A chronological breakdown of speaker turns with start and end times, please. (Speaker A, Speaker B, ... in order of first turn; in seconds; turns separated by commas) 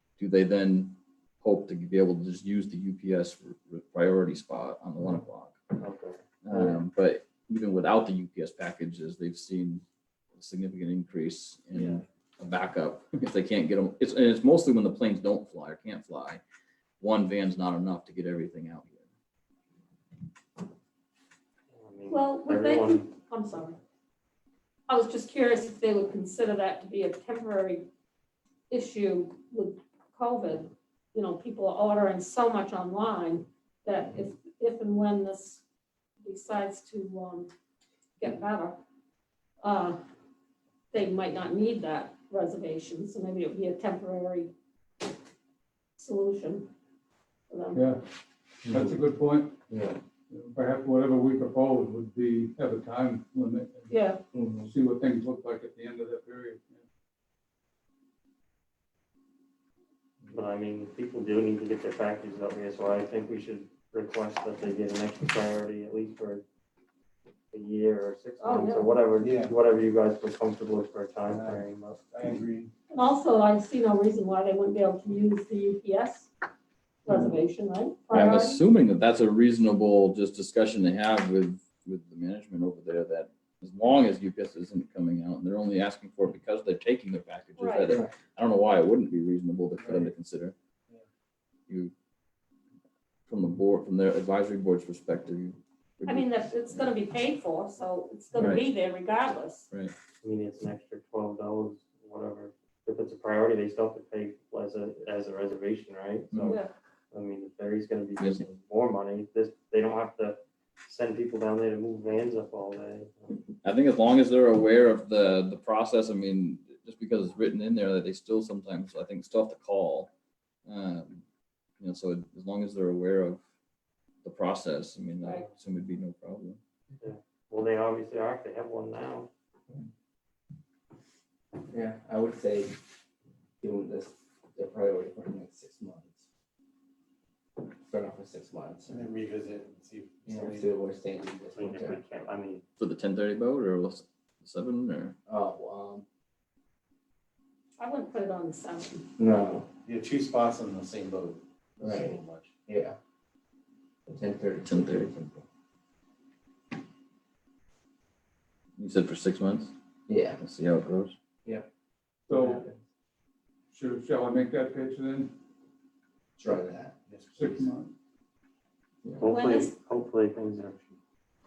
Speaker A: 0.2-5.7, Speaker B: 5.8-6.7, Speaker A: 6.4-9.8, Speaker A: 10.4-16.4, Speaker B: 11.7-12.0, Speaker A: 17.0-19.1, Speaker B: 21.7-23.1, Speaker C: 22.1-23.8, Speaker C: 24.9-27.9, Speaker C: 28.7-35.6, Speaker C: 36.2-37.5, Speaker C: 38.2-38.8, Speaker C: 39.6-40.0, Speaker C: 40.9-44.5, Speaker C: 46.0-46.7, Speaker C: 47.5-47.9, Speaker D: 47.7-48.0, Speaker E: 48.7-49.0, Speaker D: 48.7-49.6, Speaker D: 50.3-54.0, Speaker C: 53.9-54.2, Speaker F: 54.3-54.7, Speaker D: 54.6-56.8, Speaker B: 60.3-66.4, Speaker B: 67.5-72.0, Speaker C: 68.4-69.0, Speaker E: 69.2-69.5, Speaker E: 71.3-71.7, Speaker D: 72.1-72.7, Speaker C: 72.9-76.3, Speaker C: 77.0-78.6, Speaker A: 78.1-90.5, Speaker C: 87.6-88.0, Speaker E: 89.8-90.1, Speaker A: 93.3-96.8, Speaker C: 96.1-99.7, Speaker A: 98.4-98.7, Speaker B: 100.2-113.4, Speaker A: 106.3-106.6, Speaker C: 106.5-106.7, Speaker A: 113.6-120.1, Speaker A: 120.7-121.2, Speaker A: 121.8-123.4, Speaker A: 124.2-126.6, Speaker C: 125.2-125.5, Speaker B: 127.0-129.3, Speaker F: 131.7-132.8, Speaker F: 133.6-136.3, Speaker F: 137.9-139.1, Speaker E: 138.9-140.7, Speaker F: 140.3-142.0, Speaker B: 141.6-142.6, Speaker A: 142.8-145.2, Speaker F: 145.3-146.1, Speaker C: 147.8-149.1, Speaker F: 149.2-149.7, Speaker E: 149.8-152.5, Speaker F: 151.8-153.0, Speaker F: 154.1-155.4, Speaker A: 154.7-155.1, Speaker A: 158.8-159.7, Speaker F: 160.1-160.4, Speaker A: 160.4-161.2, Speaker D: 162.3-162.7, Speaker F: 162.3-162.8, Speaker D: 163.7-165.3, Speaker F: 166.4-167.0, Speaker E: 167.1-167.6, Speaker D: 167.3-167.9, Speaker B: 169.2-170.9, Speaker C: 169.2-169.7